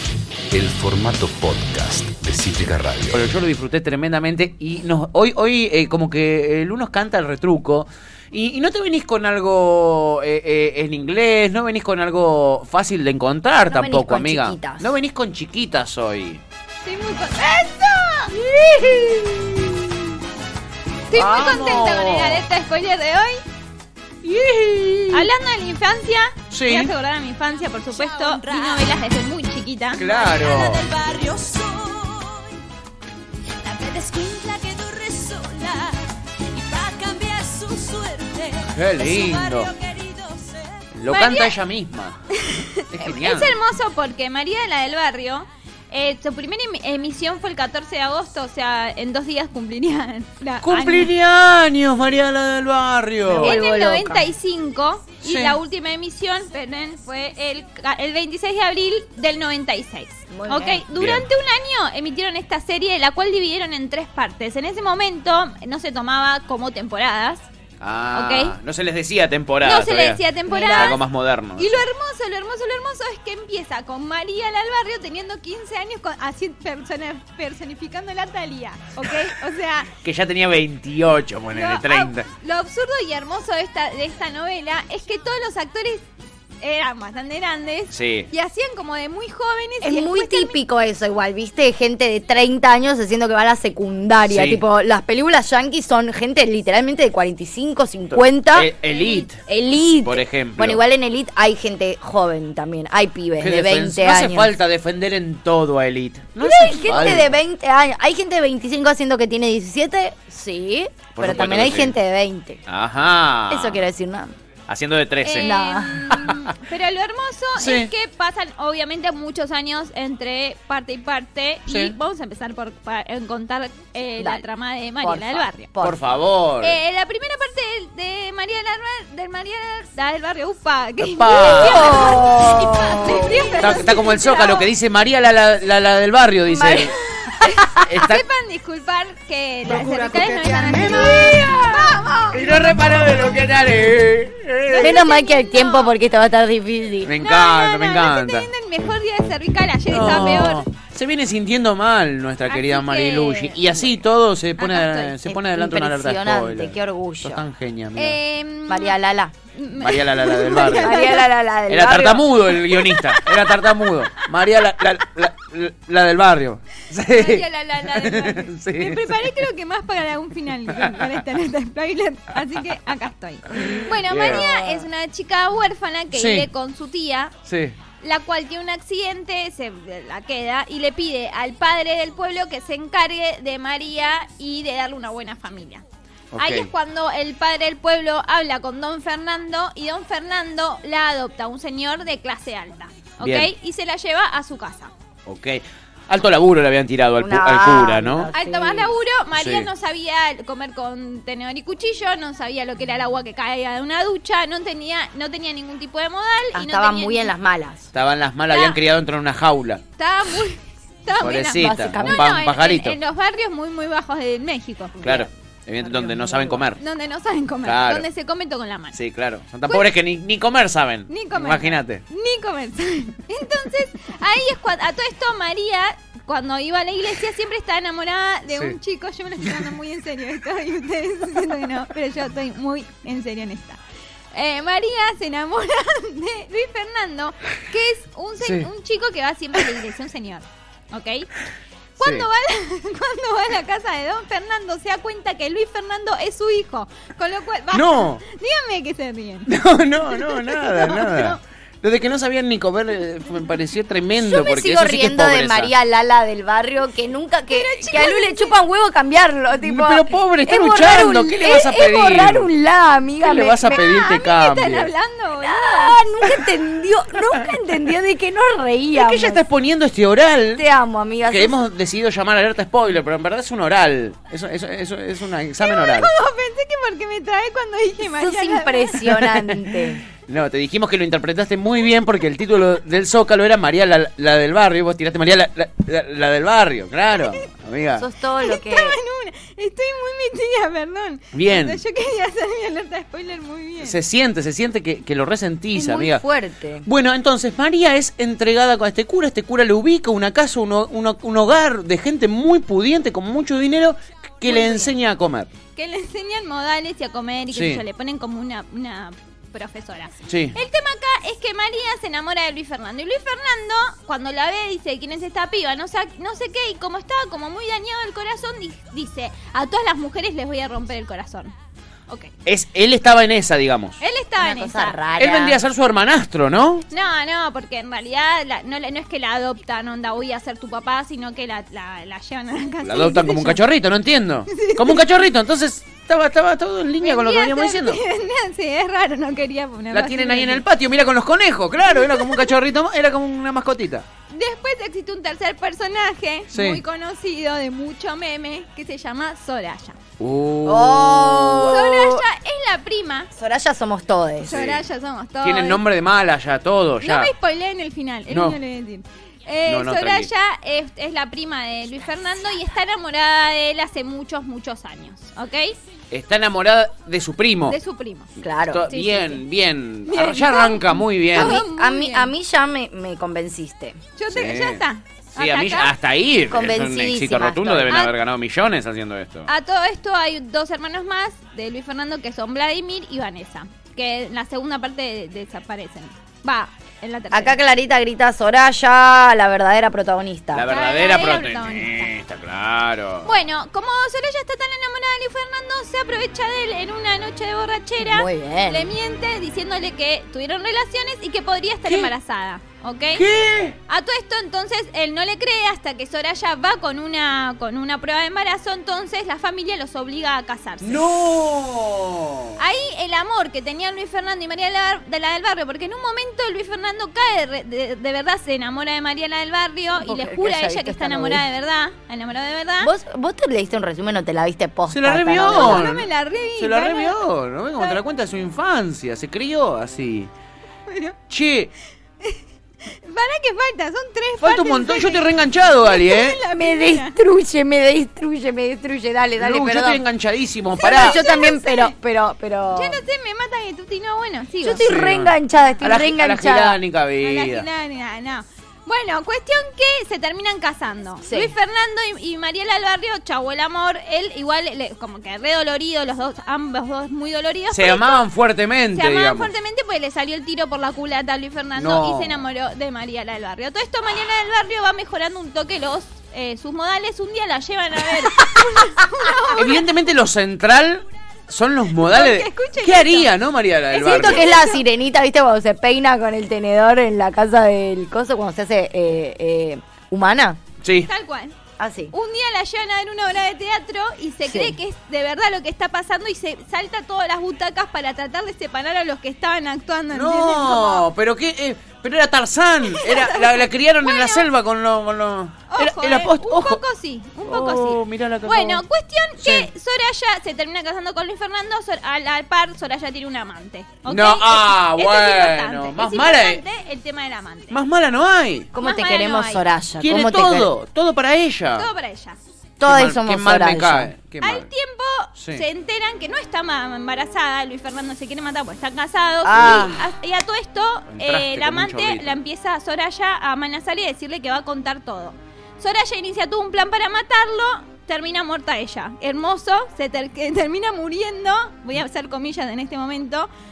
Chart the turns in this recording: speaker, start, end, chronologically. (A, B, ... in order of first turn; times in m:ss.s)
0:00.5-0:03.3 A
0:03.1-0:16.4 B
0:13.7-0:14.9 C
0:16.8-0:17.9 D
0:18.3-0:19.6 C
0:21.1-0:23.4 D
0:21.1-0:22.4 B
0:25.1-0:30.1 D
0:26.5-0:26.9 B
0:27.9-0:29.0 E
0:30.0-0:30.9 B
0:30.1-0:32.6 E
0:33.5-0:40.9 E
0:38.6-0:39.7 B
0:40.9-0:42.2 B
0:41.0-0:41.6 D
0:42.3-0:51.1 D
0:42.9-0:43.6 B
0:50.6-0:53.6 B
0:53.3-0:54.2 C
0:53.4-1:07.4 D
0:55.2-0:55.6 B
1:00.3-1:00.8 C
1:01.0-1:01.2 B
1:07.8-1:11.8 B
1:08.1-1:08.6 D
1:09.6-1:11.0 D
1:10.5-1:11.0 C
1:11.6-1:19.9 D
1:20.0-1:22.3 B
1:21.5-1:26.0 D
1:26.6-1:30.6 D
1:27.9-1:28.3 B
1:29.8-1:38.7 C
1:34.2-1:34.6 B
1:38.1-1:39.4 B
1:38.8-1:39.3 D
1:39.5-1:44.5 C
1:40.0-1:40.8 B
1:43.4-1:47.3 B
1:46.4-1:52.6 C
1:46.7-1:47.2 D
1:51.1-1:52.0 B
1:52.7-1:53.8 B
1:53.5-1:54.3 C
1:54.7-1:55.6 B
1:55.2-2:05.7 D
1:55.4-1:56.2 C
1:56.1-1:56.4 B
1:57.6-1:57.9 B
2:01.7-2:01.9 B
2:04.2-2:04.4 C
2:05.0-2:06.2 C
2:05.8-2:06.8 B
2:06.6-2:14.7 D
2:11.0-2:12.1 B
2:11.3-2:13.8 C
2:13.6-2:16.9 B
2:16.5-2:17.8 C
2:17.4-2:22.4 D
2:17.8-2:18.2 B
2:19.7-2:20.3 B
2:20.4-2:22.0 C
2:20.9-2:21.5 B
2:22.3-2:25.0 B
2:24.6-2:25.9 D
2:24.8-2:27.1 C
2:27.0-2:28.5 B
2:27.2-2:30.6 D
2:29.9-2:38.2 B
2:32.5-2:33.9 D
2:34.6-2:35.1 D
2:35.2-2:37.4 C
2:38.0-2:39.0 D
2:38.7-2:39.3 C
2:39.5-2:41.3 D
2:39.8-2:41.0 B
2:40.5-2:42.5 C
2:41.7-2:49.3 B
2:42.9-2:43.3 D
2:47.1-2:57.3 D
2:53.5-2:54.4 B
2:54.2-2:54.9 C
2:56.1-2:56.5 B
2:57.4-2:57.8 B
2:58.0-3:05.8 D
3:06.3-3:06.7 B
3:06.4-3:14.9 D
3:13.2-3:13.5 B
3:15.2-3:18.3 B
3:17.2-3:18.9 C
3:18.3-3:27.3 D
3:19.4-3:19.7 B
3:26.5-3:27.9 C
3:27.9-3:29.8 B
3:28.5-3:28.8 D
3:30.0-3:35.3 D
3:31.2-3:33.0 B
3:31.3-3:32.3 C
3:35.0-3:36.8 B
3:35.8-3:36.6 C
3:36.8-3:39.0 D
3:37.6-3:38.0 B
3:38.9-3:42.0 B
3:39.7-3:39.9 D
3:41.1-3:53.8 D
3:48.5-3:48.8 B
3:54.3-4:01.3 D
3:58.4-3:58.7 B
4:02.0-4:09.5 D
4:02.0-4:02.3 B
4:07.7-4:08.2 B
4:09.5-4:15.7 B
4:10.1-4:11.4 D
4:14.2-4:23.8 C
4:17.5-4:18.5 D
4:19.6-4:22.5 B
4:23.2-4:24.9 B
4:23.8-4:26.0 D
4:25.4-4:29.4 C
4:28.9-4:30.6 B
4:30.6-4:31.6 C
4:31.2-4:36.1 B
4:35.6-4:39.0 D
4:38.0-4:40.0 C
4:39.2-4:39.6 B
4:40.2-4:48.0 B
4:48.0-4:49.0 C
4:48.4-4:54.0 D
4:51.3-4:51.8 B
4:53.8-4:56.2 B
4:55.7-4:56.9 C
4:56.8-5:05.5 B
5:04.4-5:04.9 D
5:05.8-5:21.5 D
5:07.5-5:07.8 B
5:10.3-5:10.5 B
5:22.4-5:24.0 B
5:24.0-5:25.0 D
5:24.4-5:25.6 C
5:25.2-5:26.8 B
5:26.9-5:33.6 D
5:32.8-5:38.0 B
5:34.5-5:35.1 D
5:37.0-5:40.6 D
5:39.9-5:44.0 B
5:41.9-5:42.4 D
5:44.3-5:50.0 D
5:46.5-5:46.8 B
5:50.2-5:51.8 B
5:50.6-5:52.2 C
5:51.7-5:53.3 D
5:53.3-5:54.6 C
5:54.4-5:55.8 D
5:54.5-5:54.8 B
5:55.4-5:57.3 B
5:57.0-6:05.8 D
5:58.3-5:58.6 B
5:59.6-6:00.3 B
6:06.1-6:07.8 B
6:07.7-6:08.3 D
6:08.4-6:08.9 C
6:08.7-6:11.6 B
6:08.9-6:09.4 D
6:10.1-6:12.3 D
6:11.3-6:14.0 C
6:14.2-6:15.9 D
6:14.3-6:14.8 B
6:15.4-6:19.5 B
6:16.5-6:17.9 C
6:19.5-6:27.5 D
6:27.3-6:30.7 C
6:30.5-6:33.3 B
6:30.7-6:32.1 D
6:33.2-6:43.2 D
6:38.0-6:38.9 C
6:43.1-6:43.8 B
6:43.9-6:51.1 D
6:50.8-6:52.6 B
6:52.6-7:02.9 D
6:59.9-7:01.4 C
7:02.8-7:05.8 C
7:04.9-7:10.3 B
7:05.4-7:07.2 D
7:10.9-7:11.2 D
7:11.3-7:11.7 B
7:12.2-7:17.2 D
7:14.4-7:16.4 B
7:16.5-7:20.0 C
7:19.4-7:21.2 B
7:20.8-7:21.9 D
7:20.8-7:23.0 C
7:22.7-7:24.8 D
7:24.6-7:26.8 C
7:24.8-7:27.6 B
7:27.2-7:38.2 D
7:31.2-7:31.5 C
7:37.7-7:39.5 B
7:38.9-7:49.8 D
7:41.8-7:42.4 B
7:49.5-7:54.5 B
7:52.0-7:53.3 D
7:53.9-7:54.8 D
7:54.0-8:00.6 C
8:00.8-8:01.1 B
8:01.0-8:01.5 D
8:01.8-8:02.1 C
8:02.1-8:11.0 D
8:04.4-8:04.8 C
8:10.1-8:16.8 B
8:12.9-8:14.4 D
8:15.7-8:27.8 D
8:17.4-8:18.8 B
8:19.4-8:19.7 B
8:24.0-8:26.6 B
8:27.7-8:28.7 B
8:28.7-8:30.7 C
8:28.8-8:29.6 D
8:30.0-8:31.9 B
8:31.8-8:32.4 D
8:32.8-8:34.1 C
8:32.8-8:34.7 B
8:34.4-8:53.5 D
8:35.4-8:35.6 B
8:39.4-8:40.0 C
8:39.6-8:39.9 B
8:41.1-8:42.4 B